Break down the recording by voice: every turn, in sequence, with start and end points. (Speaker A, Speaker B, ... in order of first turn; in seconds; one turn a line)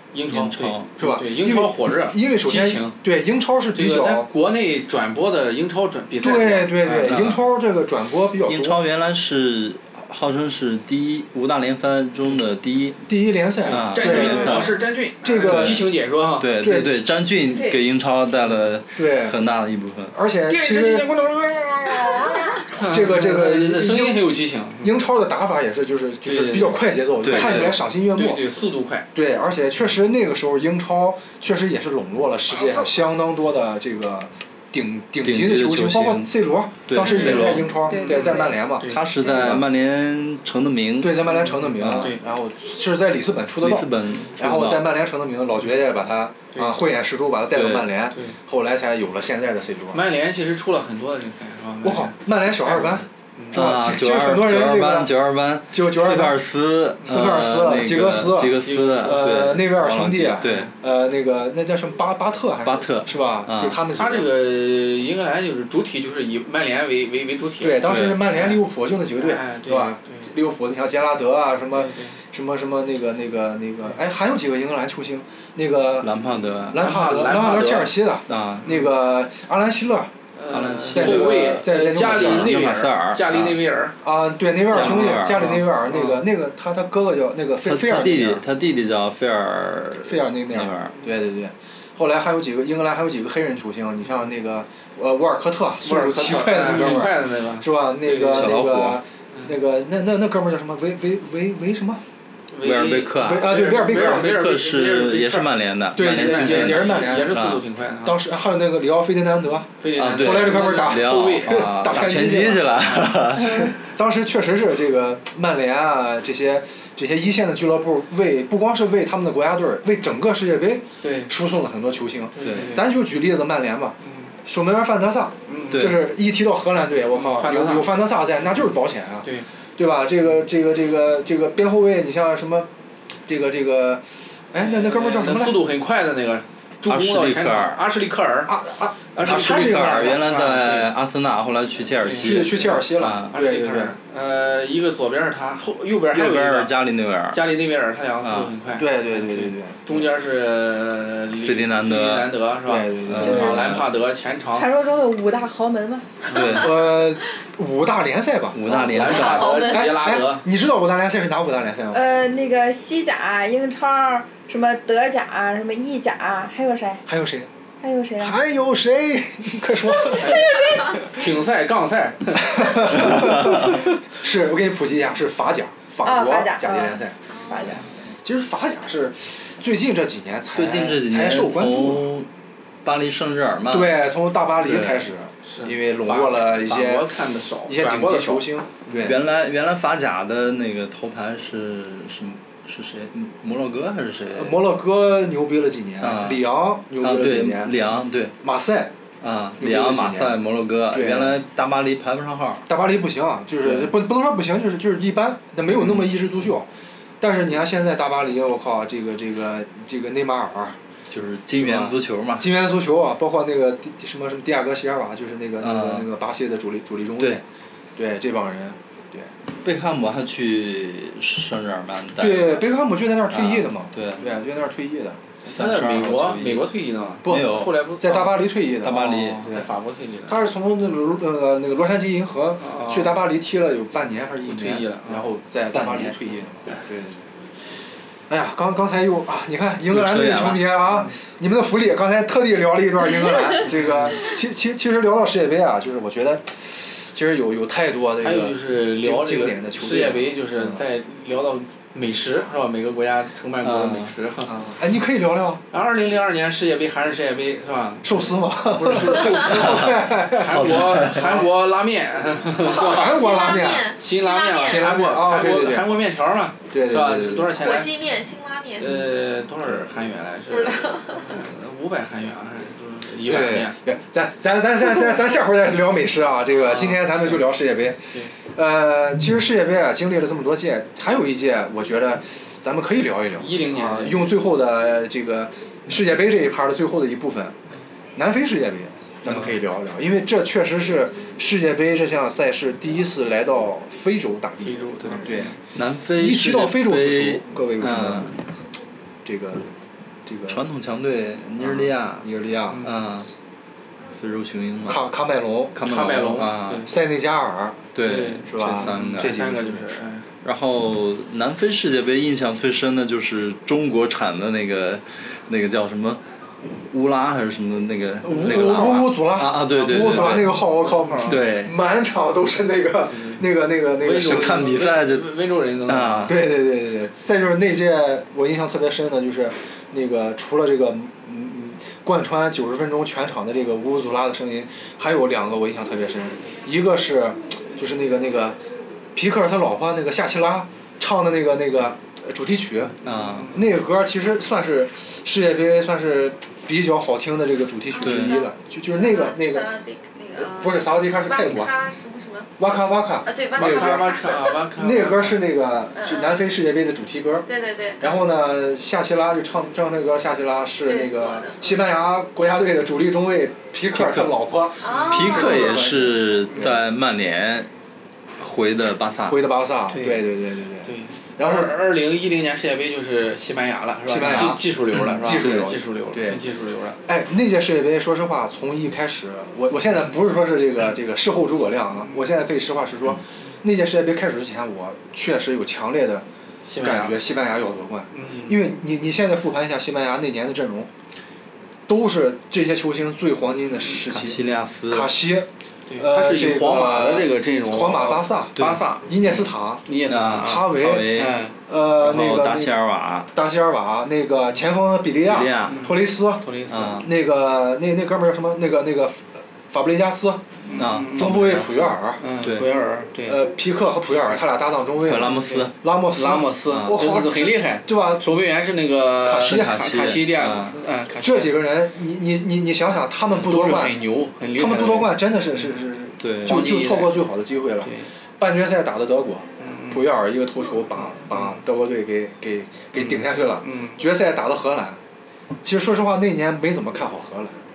Speaker A: 0.1-3.0
Speaker B: 0.3-0.9
Speaker C: 1.0-4.3
Speaker A: 3.7-7.2
Speaker C: 6.2-8.8
Speaker B: 7.0-7.4
Speaker B: 8.4-13.0
Speaker C: 13.1-15.9
Speaker B: 13.7-14.8
Speaker A: 13.7-16.5
Speaker B: 15.4-15.8
Speaker B: 16.4-20.1
Speaker C: 16.6-17.1
Speaker D: 17.5-17.8
Speaker C: 18.9-19.4
Speaker C: 20.1-21.1
Speaker A: 20.5-24.9
Speaker D: 22.2-22.6
Speaker C: 22.8-24.3
Speaker C: 24.8-28.4
Speaker A: 26.2-29.1
Speaker B: 27.2-27.7
Speaker C: 29.1-39.6
Speaker B: 35.2-36.3
Speaker B: 36.9-37.7
Speaker A: 37.2-39.1
Speaker E: 37.8-38.6
Speaker B: 38.8-42.1
Speaker C: 41.0-50.0
Speaker A: 41.3-42.2
Speaker B: 43.6-44.9
Speaker B: 47.5-47.9
Speaker A: 48.1-48.4
Speaker A: 49.9-53.6
Speaker C: 51.8-55.1
Speaker B: 53.5-60.7
Speaker C: 55.7-56.4
Speaker C: 57.0-64.3
Speaker A: 58.6-59.4
Speaker A: 60.4-60.7
Speaker B: 62.6-63.8
Speaker A: 63.9-68.6
Speaker C: 67.6-76.1
Speaker B: 67.8-68.3
Speaker A: 69.2-70.3
Speaker A: 71.7-72.2
Speaker B: 76.0-76.8
Speaker C: 76.7-80.1
Speaker A: 76.7-78.0
Speaker B: 78.3-78.7
Speaker A: 78.6-78.9
Speaker A: 80.3-84.0
Speaker B: 80.5-83.6
Speaker C: 80.9-82.5
Speaker C: 84.0-88.4
Speaker B: 84.7-85.7
Speaker A: 84.7-86.2
Speaker B: 87.6-91.0
Speaker C: 90.0-102.0
Speaker A: 95.8-98.6
Speaker B: 96.6-97.1
Speaker B: 98.3-99.0
Speaker A: 102.5-108.2
Speaker B: 102.6-107.6
Speaker C: 103.1-104.4
Speaker C: 105.9-107.4
Speaker C: 108.0-132.7
Speaker A: 109.8-111.8
Speaker B: 110.0-113.7
Speaker A: 121.0-121.3
Speaker A: 122.3-122.9
Speaker B: 122.4-122.7
Speaker A: 124.0-124.3
Speaker A: 125.5-126.0
Speaker B: 125.7-126.1
Speaker A: 127.1-127.9
Speaker C: 133.2-135.6
Speaker A: 134.6-138.5
Speaker B: 136.9-137.8
Speaker C: 138.5-140.2
Speaker A: 139.1-140.9
Speaker B: 139.2-143.3
Speaker A: 142.0-146.8
Speaker C: 142.2-144.0
Speaker B: 146.1-147.4
Speaker A: 147.3-154.7
Speaker B: 148.2-148.5
Speaker C: 148.8-149.8
Speaker B: 151.3-152.3
Speaker C: 152.6-153.7
Speaker B: 153.1-153.8
Speaker E: 153.2-153.7
Speaker E: 154.5-156.1
Speaker A: 156.3-156.6
Speaker B: 156.3-156.7
Speaker C: 156.3-158.6
Speaker B: 158.5-159.7
Speaker E: 158.7-159.8
Speaker A: 158.8-160.4
Speaker D: 159.1-159.9
Speaker C: 159.4-162.0
Speaker E: 161.9-167.0
Speaker C: 167.1-167.5
Speaker E: 167.8-168.4
Speaker C: 168.2-170.5
Speaker E: 170.0-171.0
Speaker A: 170.1-173.1
Speaker C: 172.4-177.2
Speaker B: 172.9-173.8
Speaker E: 176.0-178.0
Speaker D: 177.3-177.7
Speaker C: 178.2-182.1
Speaker B: 180.5-182.3
Speaker B: 182.8-184.0
Speaker C: 183.7-187.1
Speaker B: 184.6-185.1
Speaker A: 185.4-189.1
Speaker C: 187.7-189.2
Speaker B: 188.9-194.6
Speaker C: 194.3-197.8
Speaker B: 196.0-198.3
Speaker C: 198.4-198.9
Speaker B: 199.2-202.7
Speaker C: 199.6-200.4
Speaker C: 200.9-201.3
Speaker C: 202.7-206.7
Speaker B: 203.6-204.0
Speaker C: 207.2-210.8
Speaker B: 211.1-212.5
Speaker C: 211.5-217.4
Speaker B: 215.6-216.1
Speaker C: 217.9-219.3
Speaker B: 219.6-222.6
Speaker C: 222.2-225.2
Speaker B: 223.3-224.3
Speaker A: 225.4-230.4
Speaker B: 225.5-226.7
Speaker B: 227.2-227.8
Speaker C: 227.2-229.7
Speaker B: 228.8-229.5
Speaker C: 230.3-237.3
Speaker A: 232.6-233.2
Speaker A: 234.4-235.3
Speaker B: 235.7-236.2
Speaker C: 238.3-250.8
Speaker B: 239.9-240.8
Speaker A: 248.2-254.5
Speaker B: 253.6-254.1
Speaker C: 254.4-255.6
Speaker A: 255.7-259.6
Speaker C: 258.0-261.4
Speaker B: 258.7-261.4
Speaker A: 260.4-263.2
Speaker C: 262.5-263.9
Speaker D: 262.6-264.9
Speaker A: 263.9-267.9
Speaker C: 264.6-266.0
Speaker C: 266.7-267.6
Speaker D: 267.6-269.1
Speaker A: 268.8-273.8
Speaker D: 270.5-271.3
Speaker C: 273.2-287.5
Speaker A: 276.5-277.5
Speaker A: 283.4-284.4
Speaker C: 288.1-295.6
Speaker B: 289.2-289.6
Speaker A: 294.6-295.5
Speaker B: 295.0-298.4
Speaker C: 296.1-298.3
Speaker C: 299.2-299.7
Speaker C: 300.2-300.6
Speaker B: 300.5-302.3
Speaker C: 301.6-302.9
Speaker B: 302.8-303.3
Speaker B: 304.1-305.0
Speaker C: 304.8-305.8
Speaker B: 305.7-306.9
Speaker A: 305.8-306.9
Speaker C: 306.8-307.9
Speaker B: 307.9-309.4
Speaker A: 308.0-310.2
Speaker C: 308.5-309.9
Speaker B: 310.4-316.2
Speaker B: 316.9-320.5
Speaker A: 318.2-319.0
Speaker C: 318.2-324.8
Speaker A: 319.6-321.4
Speaker B: 321.2-321.7
Speaker A: 323.1-323.4
Speaker A: 324.0-326.3
Speaker B: 324.1-325.3
Speaker B: 325.9-326.5
Speaker C: 326.2-338.6
Speaker C: 339.1-342.9
Speaker B: 343.0-343.6
Speaker A: 343.1-343.6
Speaker C: 343.5-349.7
Speaker D: 347.9-352.5
Speaker B: 348.0-348.4
Speaker C: 350.4-351.7
Speaker C: 352.6-357.5
Speaker D: 353.2-354.6
Speaker A: 353.5-355.5
Speaker D: 355.9-356.5
Speaker D: 357.5-358.3
Speaker C: 358.0-366.8
Speaker D: 360.8-361.6
Speaker B: 363.9-364.4
Speaker D: 364.8-365.9
Speaker A: 364.8-365.2
Speaker B: 365.1-367.7
Speaker B: 368.4-369.4
Speaker C: 369.2-371.8
Speaker A: 369.9-370.3
Speaker A: 370.8-377.0
Speaker C: 374.1-376.4
Speaker B: 374.2-374.6
Speaker B: 375.4-375.7
Speaker C: 377.1-386.2
Speaker A: 386.6-387.2
Speaker C: 386.8-390.9
Speaker A: 388.1-388.7
Speaker C: 391.9-399.8
Speaker B: 394.0-395.1
Speaker A: 395.9-401.5
Speaker B: 398.6-398.8
Speaker B: 400.1-403.3
Speaker C: 400.4-402.7
Speaker C: 403.3-406.4
Speaker B: 405.2-405.9
Speaker A: 405.6-407.0
Speaker B: 406.7-407.1
Speaker C: 407.0-410.4
Speaker A: 410.6-411.6
Speaker B: 410.8-412.6
Speaker C: 411.1-412.2
Speaker A: 412.2-413.4
Speaker C: 413.3-418.3
Speaker B: 415.0-415.7
Speaker A: 415.4-421.6
Speaker B: 416.7-417.2
Speaker C: 419.2-420.1
Speaker B: 419.4-420.8
Speaker C: 421.2-424.0
Speaker A: 423.3-425.7
Speaker C: 424.5-435.0
Speaker B: 426.2-426.6
Speaker A: 426.4-427.2
Speaker A: 427.8-428.1
Speaker A: 429.6-430.0
Speaker A: 431.0-431.6
Speaker A: 432.9-434.0
Speaker C: 435.6-437.5